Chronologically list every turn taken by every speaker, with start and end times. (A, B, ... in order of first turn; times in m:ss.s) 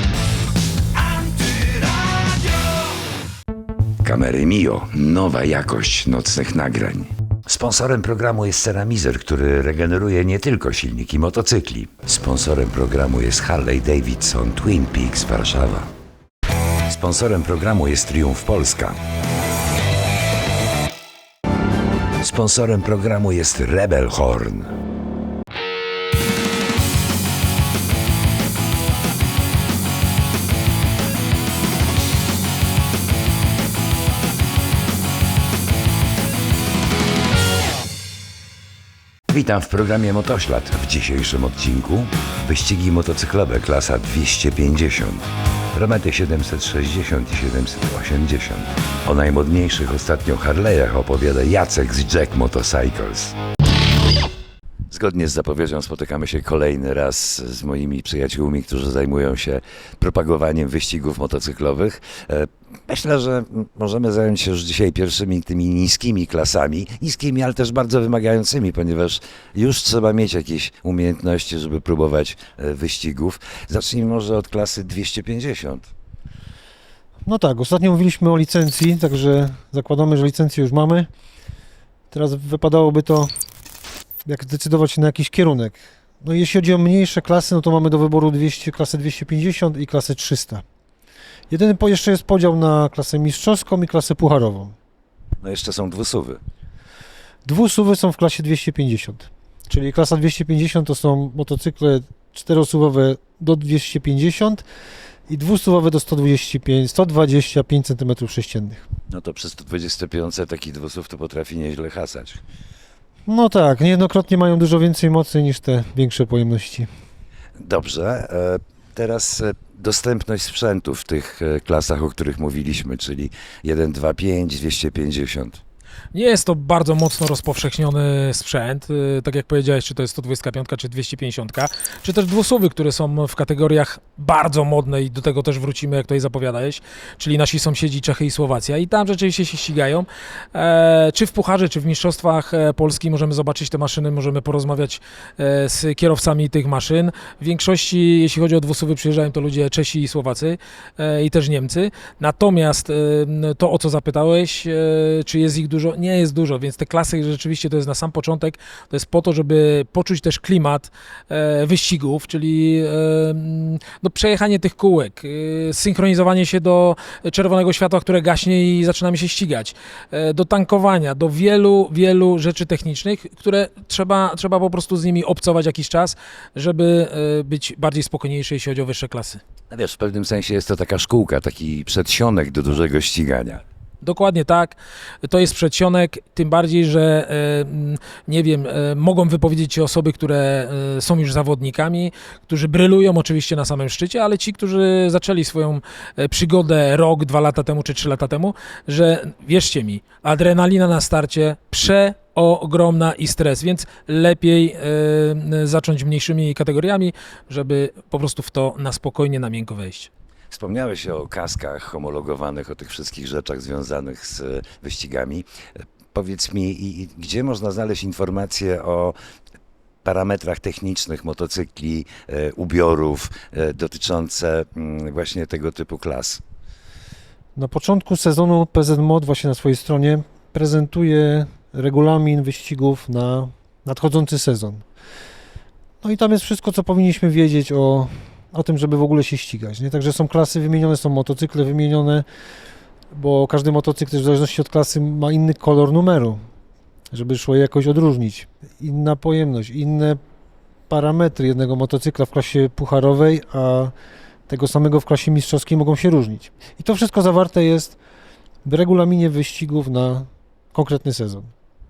0:01.4-0:01.9 A
0:04.0-0:15.9 A
0:16.9-0:19.0 A
0:22.2-0:24.7 A
0:39.3-0:53.4 A
0:54.9-1:15.9 A
1:17.2-1:21.1 B
1:22.1-1:23.3 B
1:24.2-1:30.6 B
1:31.5-1:34.7 B
1:35.4-1:36.4 A
1:37.4-1:44.6 B
1:45.3-1:48.8 B
1:49.1-1:52.4 A
1:53.3-1:56.9 B
1:57.6-2:05.6 A
2:06.1-2:59.4 C
2:59.7-3:03.6 A
3:04.0-3:30.1 C
3:30.5-3:35.4 A
3:36.1-3:39.1 A
3:40.0-3:46.4 A
3:47.6-3:54.8 B
3:56.0-4:02.2 B
4:03.1-4:06.4 B
4:07.1-4:10.2 B
4:10.9-4:13.9 B
4:14.5-4:18.0 B
4:18.6-4:21.5 B